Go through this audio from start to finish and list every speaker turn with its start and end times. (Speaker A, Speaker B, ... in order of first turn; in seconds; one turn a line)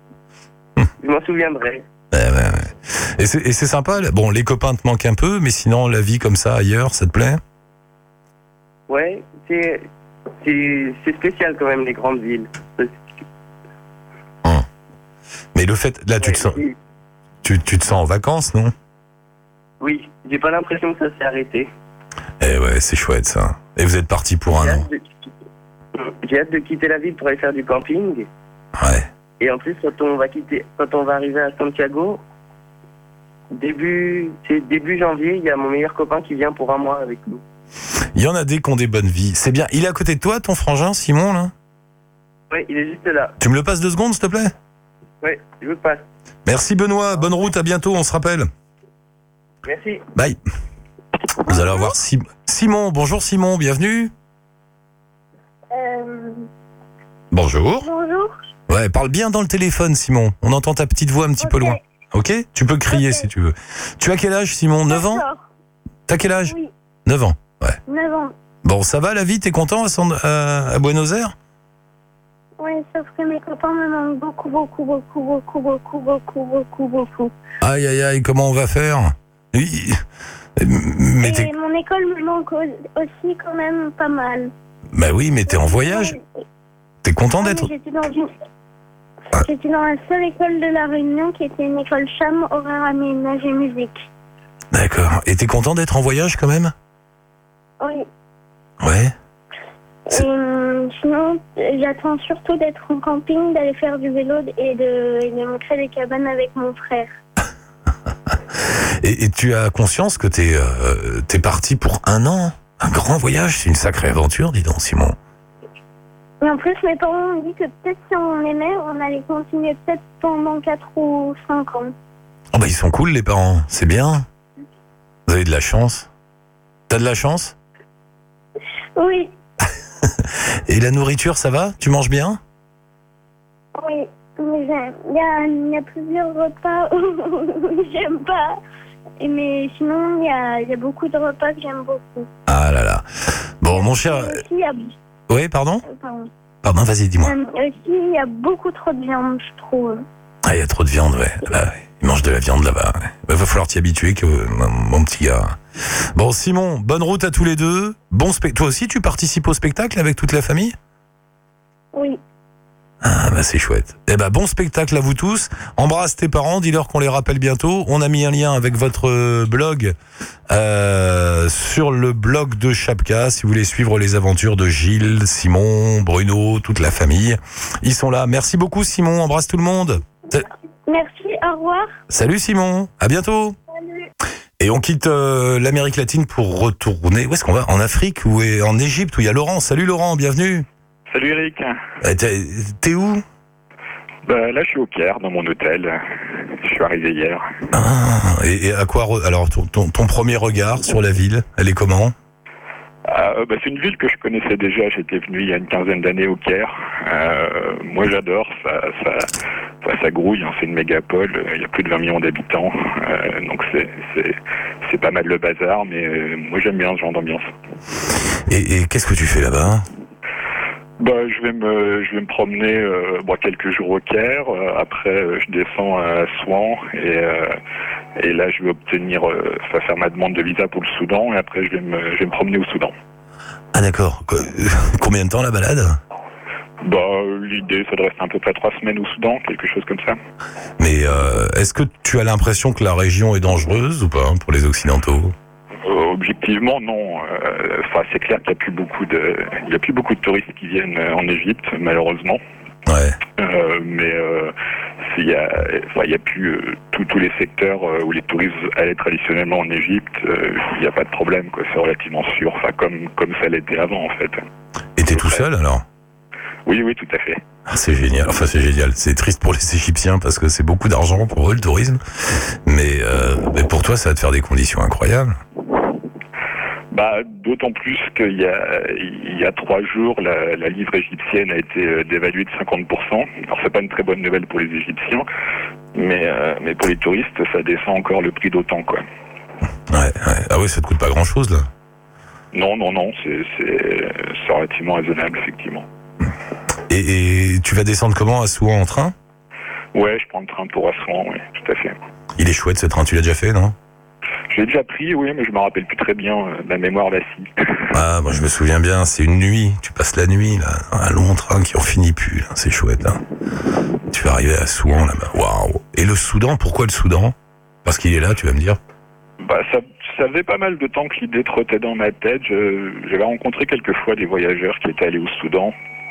Speaker A: 1.0-1.8
Speaker B: 2.1-7.4
Speaker A: 8.9-9.9
Speaker A: 10.4-13.1
Speaker B: 15.5-16.6
Speaker A: 16.2-16.8
Speaker B: 17.4-18.7
Speaker A: 19.8-21.7
Speaker B: 22.4-24.9
Speaker A: 24.5-25.1
Speaker A: 25.9-28.3
Speaker B: 28.8-29.1
Speaker A: 29.4-32.2
Speaker A: 33.5-37.4
Speaker B: 38.1-41.5
Speaker A: 42.5-43.3
Speaker B: 43.4-44.5
Speaker A: 45.2-46.0
Speaker B: 46.5-48.5
Speaker A: 49.6-50.0
Speaker B: 51.4-54.1
Speaker C: 51.5-52.0
Speaker C: 55.7-56.5
Speaker B: 57.3-57.9
Speaker C: 57.8-58.4
Speaker B: 58.7-65.2
Speaker C: 61.4-61.8
Speaker C: 62.9-63.3
Speaker C: 64.9-65.5
Speaker B: 66.1-66.5
Speaker C: 66.5-66.7
Speaker B: 67.0-67.8
Speaker C: 67.9-68.3
Speaker B: 68.6-71.3
Speaker C: 72.6-77.3
Speaker B: 77.6-80.0
Speaker B: 80.6-81.5
Speaker C: 81.2-84.5
Speaker B: 84.9-86.1
Speaker C: 85.5-86.3
Speaker B: 87.0-87.7
Speaker C: 87.4-88.3
Speaker C: 89.3-94.0
Speaker B: 94.7-96.7
Speaker C: 97.8-98.1
Speaker B: 98.8-99.1
Speaker C: 100.0-107.1
Speaker B: 108.5-115.2
Speaker C: 116.4-121.9
Speaker B: 122.5-124.2
Speaker B: 125.3-126.1
Speaker B: 126.9-127.5
Speaker C: 128.9-129.3
Speaker B: 130.0-132.4
Speaker C: 133.8-138.6
Speaker C: 139.2-142.3
Speaker B: 142.5-143.0
Speaker B: 143.6-144.4
Speaker C: 143.7-144.9
Speaker B: 145.3-145.8
Speaker C: 145.8-146.3
Speaker B: 146.6-147.3
Speaker C: 147.2-150.0
Speaker B: 150.4-160.8
Speaker C: 161.9-162.2
Speaker B: 163.0-169.9
Speaker B: 170.5-180.5
Speaker C: 180.8-181.9
Speaker B: 182.1-183.6
Speaker B: 184.6-190.7
Speaker D: 191.1-191.8
Speaker B: 192.0-193.2
Speaker D: 194.3-197.4
Speaker B: 197.7-202.1
Speaker D: 203.1-209.3
Speaker D: 209.8-217.5
Speaker B: 218.5-219.8
Speaker D: 221.0-227.6
Speaker D: 228.2-232.9
Speaker B: 233.7-236.0
Speaker D: 236.8-240.2
Speaker B: 240.8-245.3
Speaker D: 245.8-252.4
Speaker B: 252.8-253.2
Speaker D: 253.4-264.4
Speaker B: 265.0-265.8
Speaker D: 265.1-265.4
Speaker D: 266.6-267.4
Speaker B: 267.7-275.4
Speaker D: 276.9-285.3
Speaker D: 285.9-289.0
Speaker B: 289.9-291.7
Speaker D: 292.5-295.9
Speaker B: 296.9-299.1
Speaker D: 299.9-301.9
Speaker B: 302.4-303.8
Speaker D: 304.5-307.8
Speaker B: 307.9-313.2
Speaker B: 314.1-318.8
Speaker D: 319.4-325.7